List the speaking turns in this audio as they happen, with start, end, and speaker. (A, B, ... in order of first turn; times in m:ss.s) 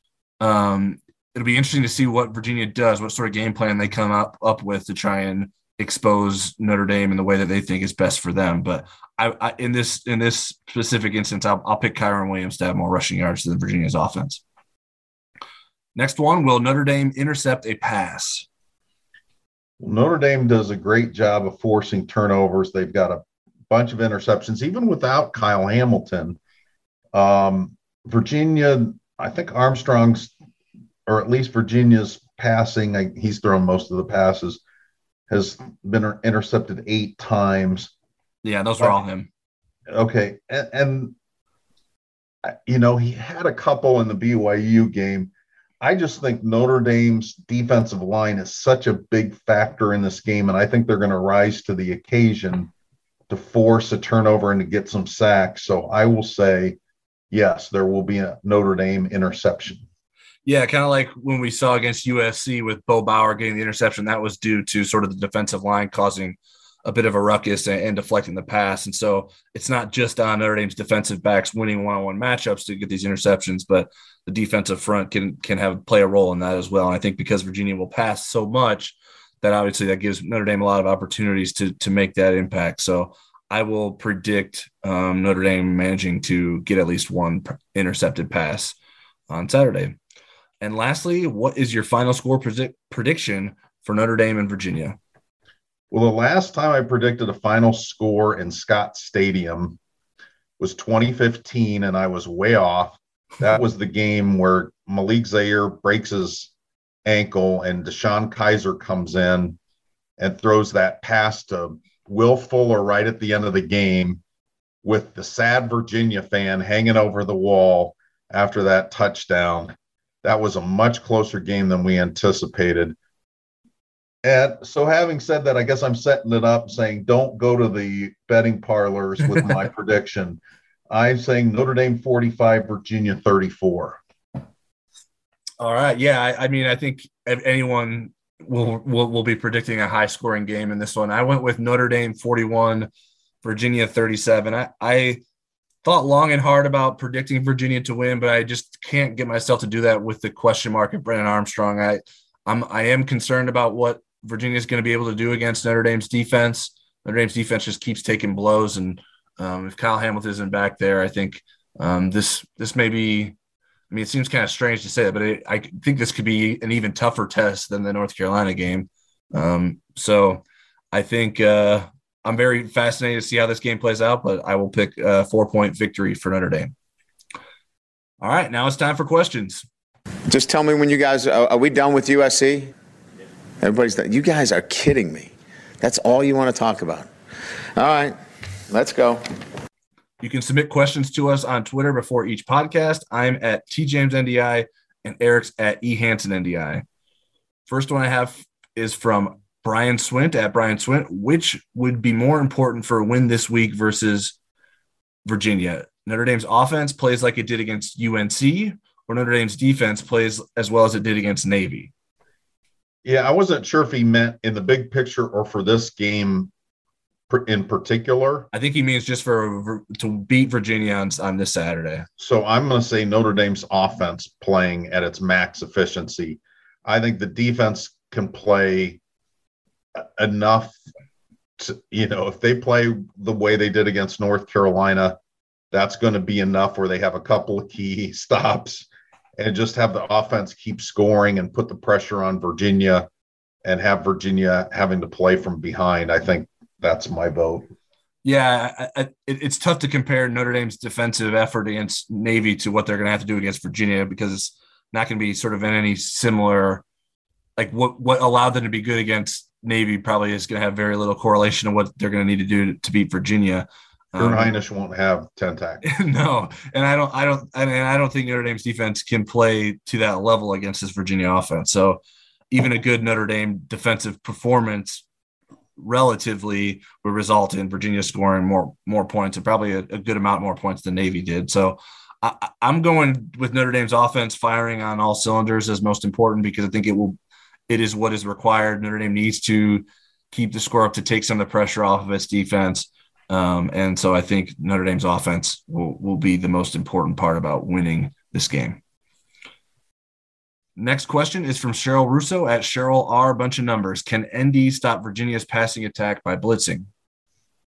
0:00.4-0:14.4 A
0:16.0-0:18.4 A
0:19.8-0:26.4 B
0:27.1-0:30.3 B
0:31.1-0:34.6 B
0:35.3-0:37.9 B
0:38.4-0:39.3 A
0:39.9-0:41.1 B
0:42.4-0:52.7 B
0:53.3-0:56.8 B
0:57.3-0:59.8 B
1:00.4-1:28.8 A
1:29.3-1:30.0 A
1:30.6-1:35.0 A
1:35.9-1:39.8 B
1:40.6-1:46.5 B
1:47.0-1:49.6 B
1:50.2-1:54.2 B
1:54.8-2:03.0 B
2:04.2-2:14.0 B
2:15.6-2:22.9 A
2:23.4-2:25.2 A
2:25.8-2:43.3 A
2:43.9-2:56.7 A
2:58.2-2:59.6 A
3:00.3-3:02.7 C
3:03.6-3:07.1 C
3:07.8-3:08.2 C
3:08.7-3:09.2 C
3:10.2-3:16.8 A
3:17.7-3:24.3 A
3:25.2-3:31.9 A
3:33.0-3:36.5 B
3:37.3-3:38.5 B
3:38.5-3:42.1 A
3:42.2-3:49.0 B
3:50.0-3:50.8 B
3:51.6-3:55.2 B
3:55.7-3:58.9 B
3:59.4-4:03.1 B
4:03.6-4:07.7 B
4:08.2-4:16.8 A
4:17.6-4:24.5 A
4:24.2-4:25.9 B
4:25.8-4:35.0 A
4:35.8-4:47.2 A
4:47.7-4:58.8 A
5:00.8-5:06.9 A